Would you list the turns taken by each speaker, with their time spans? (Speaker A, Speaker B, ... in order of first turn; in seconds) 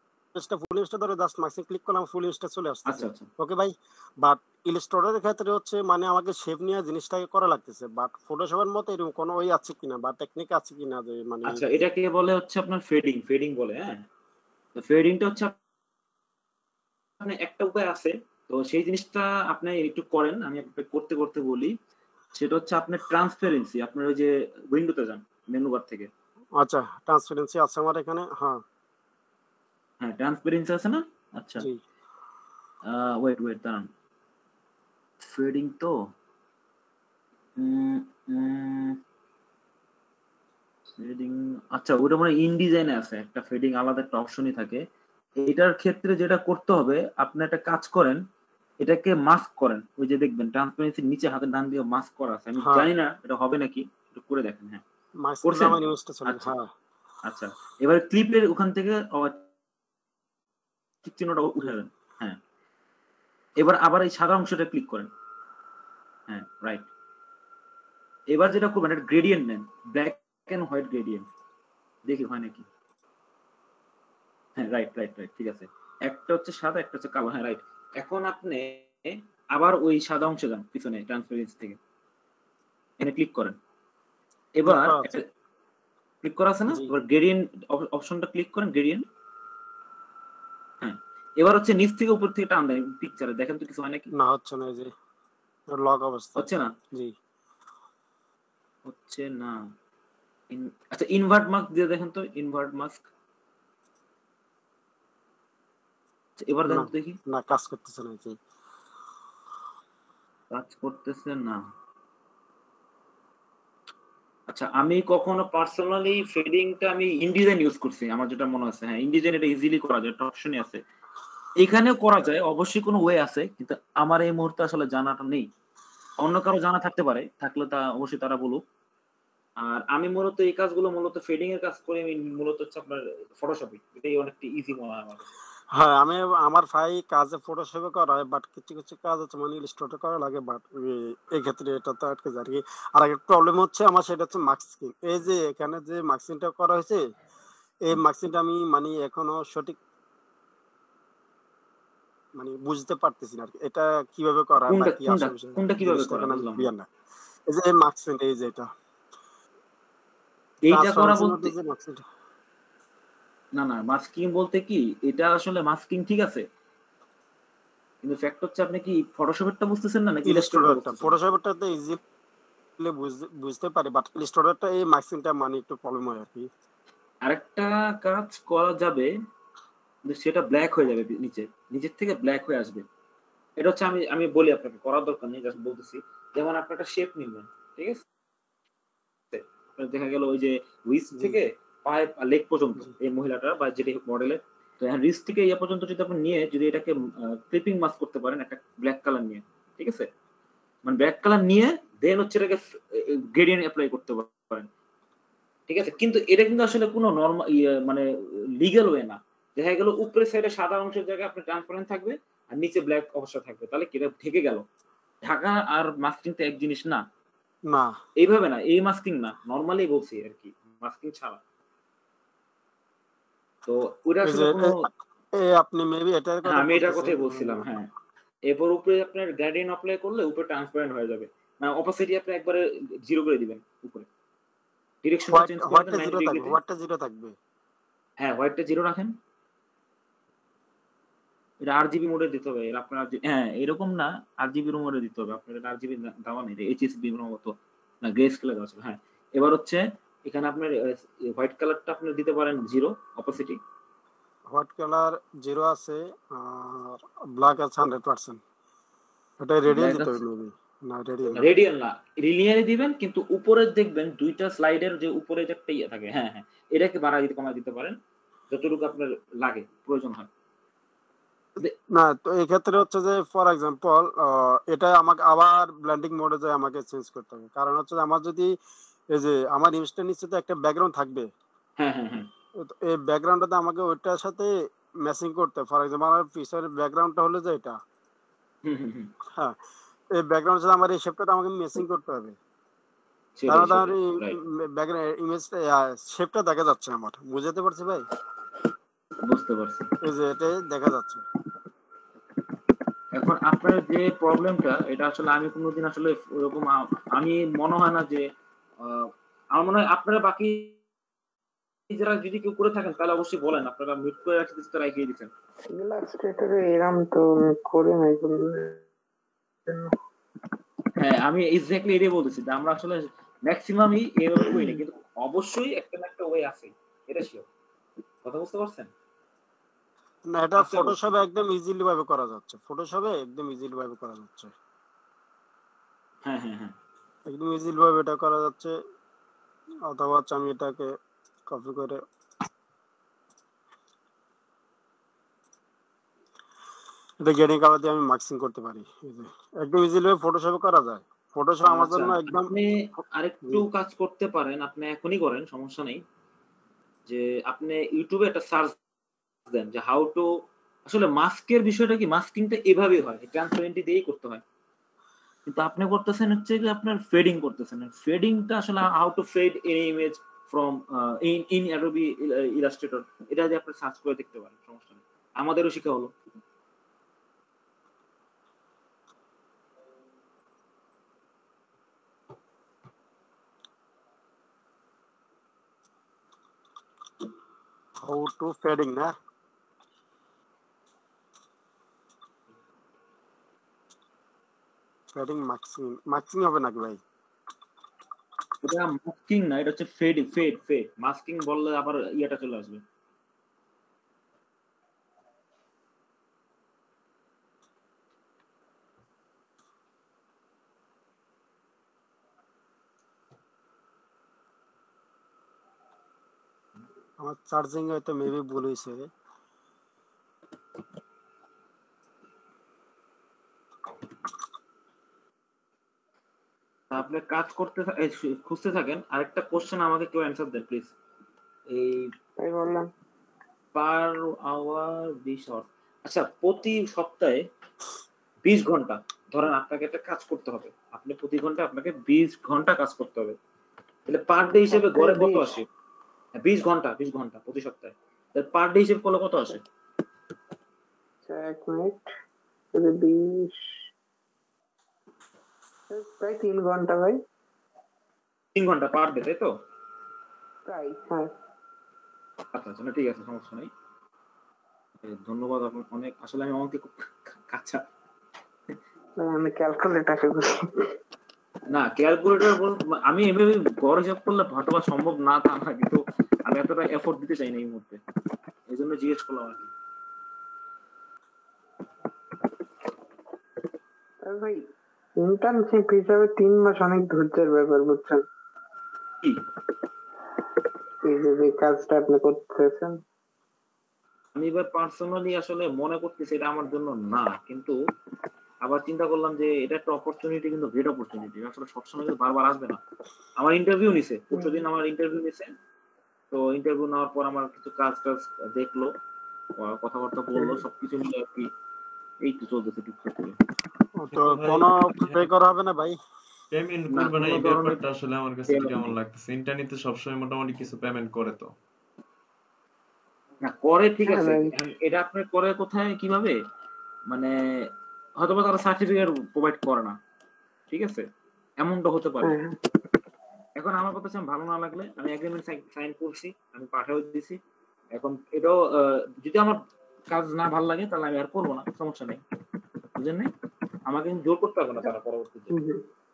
Speaker A: 0.3-11.6, 26.6-28.6, 52.6-52.9, 55.2-56.7, 84.7-85.1, 94.1-94.9, 95.7-97.1, 106.7-108.4, 135.7-147.0, 147.9-149.8, 152.3-156.9, 157.5-158.7, 160.7-162.0, 170.2-172.0, 172.8-176.5, 217.7-217.9, 224.2-224.8, 225.4-227.6, 235.3-237.3, 254.5-258.4, 259.4-261.4, 271.9-278.5, 279.1-281.3, 282.6-284.5, 285.0-287.8, 290.1-292.4, 293.5-298.0, 300.0-301.2, 330.3-334.5, 337.3-338.7, 339.9-340.9, 341.5-342.0, 347.2-352.5, 388.0-389.1, 395.1-397.0, 417.2-419.1, 514.0-516.0
Speaker B: 2.9-3.3, 11.4-14.0, 14.8-15.5, 17.2-21.7, 22.3-26.1, 30.0-31.7, 32.9-33.9, 35.2-36.0, 37.6-39.0, 41.0-44.8, 45.4-48.2, 48.8-54.8, 55.4-56.5, 57.2-59.4, 61.0-62.4, 63.6-65.1, 66.3-66.8, 68.3-71.3, 72.0-72.7, 74.6-81.8, 83.0-83.6, 84.6-85.2, 86.2-89.0, 90.8-94.1, 96.4-96.7, 98.8-99.6, 100.5-103.1, 106.4-107.2, 110.5-111.6, 114.5-120.8, 121.6-125.5, 126.2-128.6, 129.6-135.2, 154.7-156.7, 160.6-161.5, 163.6-166.4, 168.0-171.2, 177.2-179.1, 180.1-182.8, 183.6-188.0, 189.3-200.1, 200.8-204.7, 205.7-208.1, 208.6-214.6, 215.2-217.0, 218.2-221.4, 223.7-224.9, 226.4-227.9, 228.5-234.1, 235.0-236.6, 238.2-239.1, 241.6-253.6, 259.7-260.2, 261.3-268.0, 268.5-270.3, 281.8-282.3, 288.6-289.1, 293.4-294.4, 299.2-299.9, 303.1-308.2, 308.8-310.8, 311.9-315.3, 321.0-327.5, 328.2-328.9, 330.6-331.1, 336.2-336.7, 351.6-356.0, 357.1-358.8, 359.5-360.3, 360.9-364.4, 365.5-376.1, 398.6-402.8, 426.9-430.9, 431.7-432.1, 433.7-437.4, 438.4-443.4, 444.1-445.7, 446.4-449.6, 458.5-459.5, 462.5-463.7, 465.0-467.8, 471.7-478.0, 478.7-479.7, 494.3-497.8, 498.6-502.8, 503.4-505.5, 506.3-508.9, 509.6-511.5, 512.2-513.4, 516.9-517.8, 518.5-518.9, 523.4-526.4, 527.1-530.0, 530.7-531.1, 531.6-532.3, 533.5-537.4, 537.9-542.2, 543.0-543.3, 543.9-545.6
Speaker C: 315.7-318.8, 319.7-319.9, 324.4-324.7, 432.4-432.9, 444.7-445.5, 451.2-452.1, 452.7-453.8, 455.9-457.2, 460.6-461.3, 469.2-470.9, 484.2-484.6, 485.2-488.2, 491.1-493.0, 504.3-504.6, 524.1-524.5, 532.2-532.6, 545.5-545.8
Speaker D: 514.2-515.3, 516.5-521.5